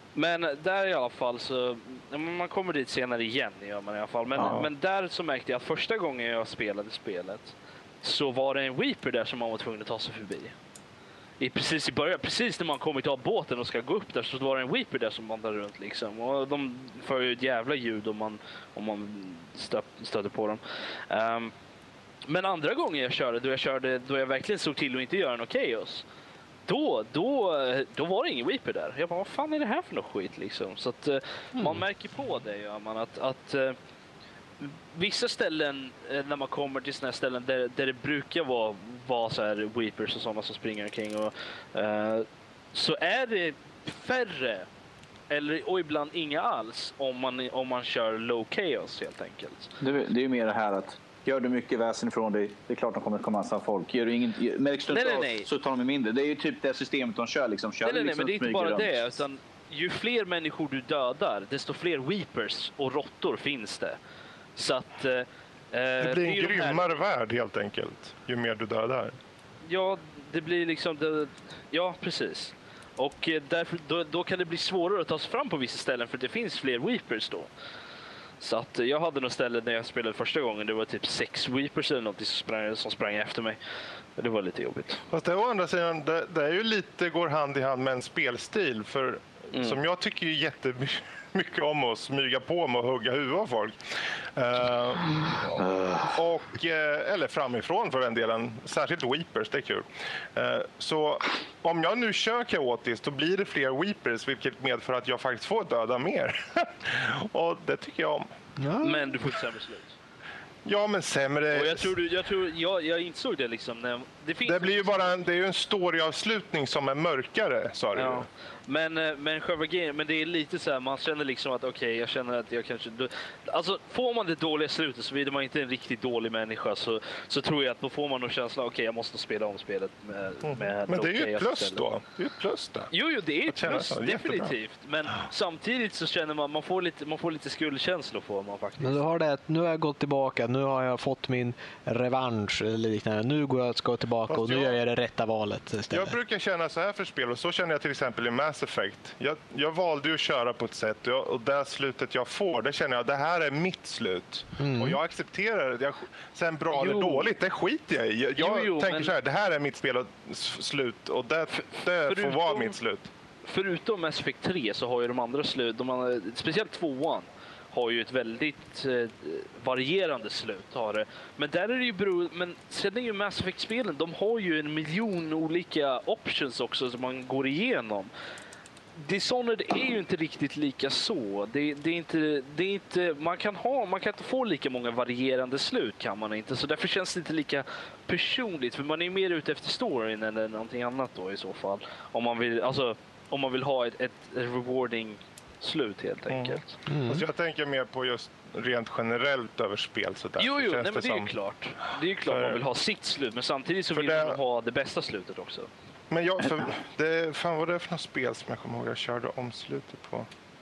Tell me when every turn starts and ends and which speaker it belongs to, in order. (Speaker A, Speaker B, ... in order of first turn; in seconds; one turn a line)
Speaker A: 0.1-10.5
Speaker B: 4.3-4.6
Speaker A: 11.4-21.5
Speaker A: 22.3-26.0
Speaker A: 26.6-33.8
Speaker C: 31.6-31.8
Speaker A: 34.6-44.7
Speaker A: 45.3-49.7
Speaker B: 49.8-59.1
Speaker A: 54.9-55.5
Speaker A: 57.8-64.0
Speaker A: 64.5-66.9
Speaker D: 66.0-69.1
Speaker A: 69.6-77.5
Speaker A: 78.4-83.6
Speaker A: 84.2-85.0
Speaker D: 85.1-108.2
Speaker B: 95.6-96.2
Speaker C: 108.6-109.1
Speaker A: 108.8-109.9
Speaker D: 110.6-112.0
Speaker A: 111.5-115.1
Speaker D: 114.5-118.2
Speaker A: 117.9-131.8
Speaker D: 130.4-132.9
Speaker A: 132.9-139.0
Speaker D: 133.5-134.5
Speaker C: 138.8-146.1
Speaker D: 144.3-144.7
Speaker D: 145.9-163.1
Speaker C: 154.6-155.0
Speaker A: 156.7-157.3
Speaker A: 158.4-159.1
Speaker A: 161.6-162.7
Speaker A: 163.4-178.1
Speaker A: 179.0-196.8
Speaker D: 196.3-201.3
Speaker C: 196.9-197.2
Speaker A: 200.4-205.7
Speaker D: 202.3-202.6
Speaker D: 203.9-204.4
Speaker D: 206.1-210.3